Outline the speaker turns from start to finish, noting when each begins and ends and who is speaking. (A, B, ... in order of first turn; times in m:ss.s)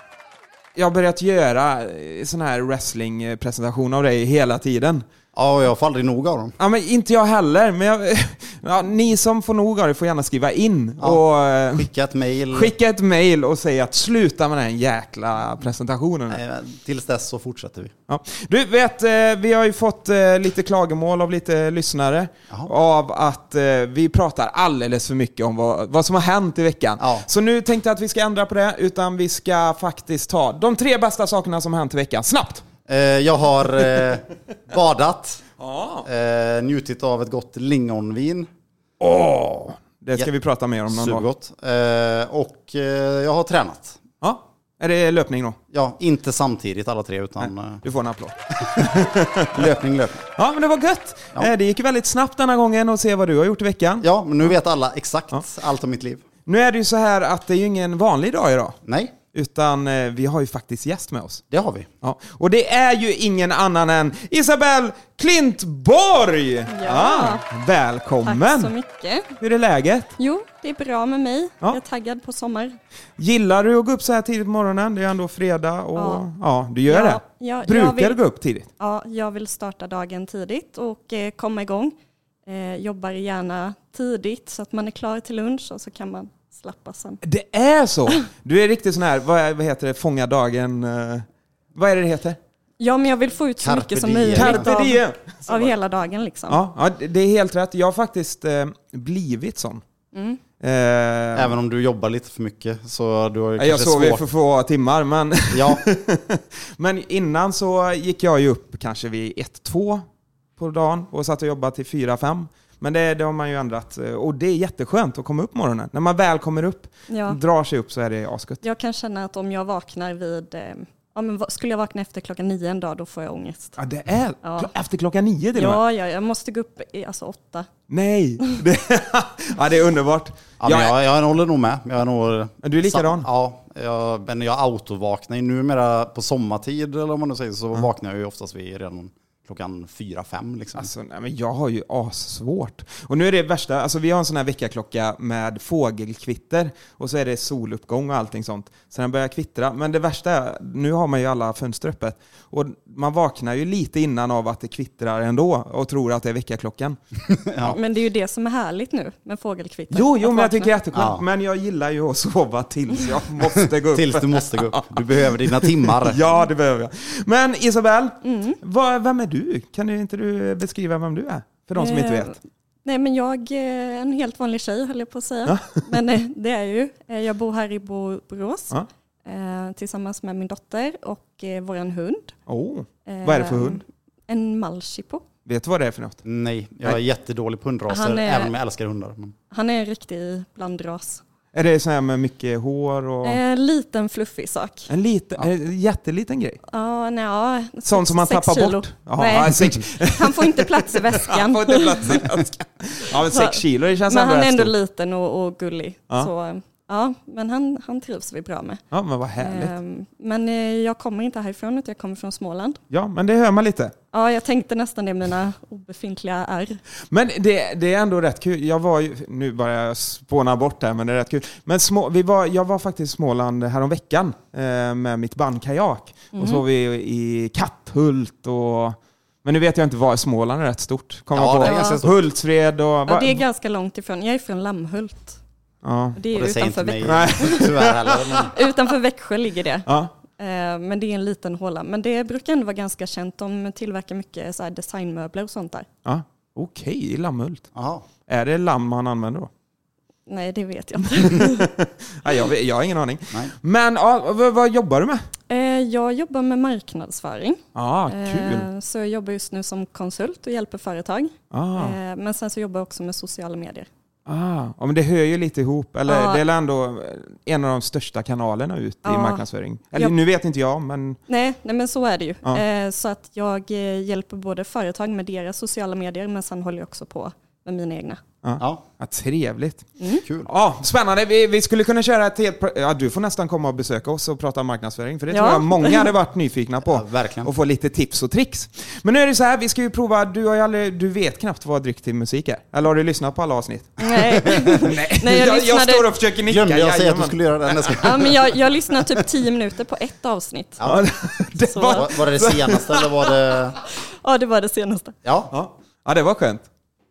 0:00.8-0:05.0 A
0:05.3-0:06.5 B
0:06.6-0:11.9 A
0:11.7-0:12.7 B
0:12.5-0:16.4 A
0:16.3-0:17.9 B
0:18.1-0:32.6 A
0:27.0-0:27.3 B
0:32.9-0:35.4 B
0:35.6-0:36.1 A
0:36.0-0:38.5 B
0:39.0-0:41.2 A
0:40.9-0:44.0 B
0:44.2-0:45.6 A
0:45.7-0:47.8 B
0:47.4-0:49.6 A
0:48.6-0:48.9 B
0:49.5-0:50.2 B
0:50.4-0:54.0 A
0:54.0-0:56.2 B
0:56.5-0:58.8 A
0:58.8-0:59.2 B
0:59.3-1:01.4 A
1:01.5-1:01.9 B
1:02.0-1:08.7 A
1:06.7-1:07.4 C
1:08.2-1:09.4 C
1:09.4-1:10.1 A
1:10.2-1:12.8 C
1:13.2-1:18.7 A
1:16.0-1:16.2 C
1:16.9-1:18.2 C
1:18.8-1:21.9 C
1:22.5-1:27.2 C
1:27.2-1:32.4 A
1:32.8-1:36.6 C
1:33.6-1:34.7 B
1:34.3-1:35.7 A
1:36.5-1:39.8 A
1:40.1-1:40.4 C
1:40.6-1:41.6 A
1:41.4-1:44.2 B
1:43.6-1:50.0 A
1:45.5-1:45.8 B
1:50.6-1:58.6 A
1:57.1-1:57.4 C
1:58.6-2:03.8 C
2:03.8-2:05.8 A
2:04.4-2:04.7 C
2:05.6-2:07.7 C
2:07.9-2:11.0 A
2:10.6-2:20.9 B
2:12.6-2:13.3 A
2:20.8-2:37.0 A
2:37.3-2:37.8 B
2:37.7-2:40.7 C
2:39.9-2:52.4 A
2:40.9-2:41.2 B
2:43.9-2:46.2 B
2:48.2-2:48.6 C
2:51.8-2:58.8 C
2:55.5-2:55.9 A
2:59.3-3:02.3 C
3:02.5-3:03.8 A
3:03.1-3:05.2 C
3:05.5-3:06.2 A
3:06.2-3:09.3 B
3:07.9-3:08.5 C
3:09.5-3:11.2 C
3:11.5-3:13.4 A
3:13.2-3:14.9 C
3:14.9-3:16.6 A
3:16.7-3:22.4 C
3:17.9-3:24.7 A
3:23.1-3:28.8 C
3:28.9-3:29.7 A
3:29.4-3:32.8 C
3:32.9-3:34.0 A
3:34.1-3:36.8 C
3:37.1-3:53.4 A
3:46.3-3:46.6 C
3:51.4-3:52.2 B
3:51.6-3:52.0 C
3:53.1-3:55.4 C
3:55.8-3:56.2 A
3:56.2-3:57.8 C
3:56.3-3:58.5 B
3:57.0-3:58.5 A
3:58.4-4:05.9 C
3:59.9-4:00.1 A
4:06.0-4:07.7 A
4:07.7-4:08.0 B
4:08.3-4:09.5 A
4:10.3-4:11.7 C
4:11.2-4:15.3 A
4:15.5-4:23.9 C
4:17.8-4:18.7 A
4:21.5-4:22.0 A
4:24.3-4:31.2 A
4:26.1-4:26.4 C
4:29.0-4:30.2 C
4:31.3-4:38.2 C
4:38.4-4:39.9 A
4:40.0-4:40.2 C
4:40.2-4:40.5 B
4:40.4-4:54.0 A
4:45.3-4:46.1 C
4:46.9-4:47.5 B
4:54.0-4:56.1 C
4:54.4-4:54.8 B
4:54.8-4:58.0 A
4:56.5-4:58.5 B
4:58.0-5:00.9 C
5:00.8-5:01.1 B
5:00.8-5:03.3 A
5:01.7-5:02.1 C
5:01.9-5:03.8 B
5:04.0-5:05.2 C
5:05.2-5:05.5 B
5:05.5-5:06.7 A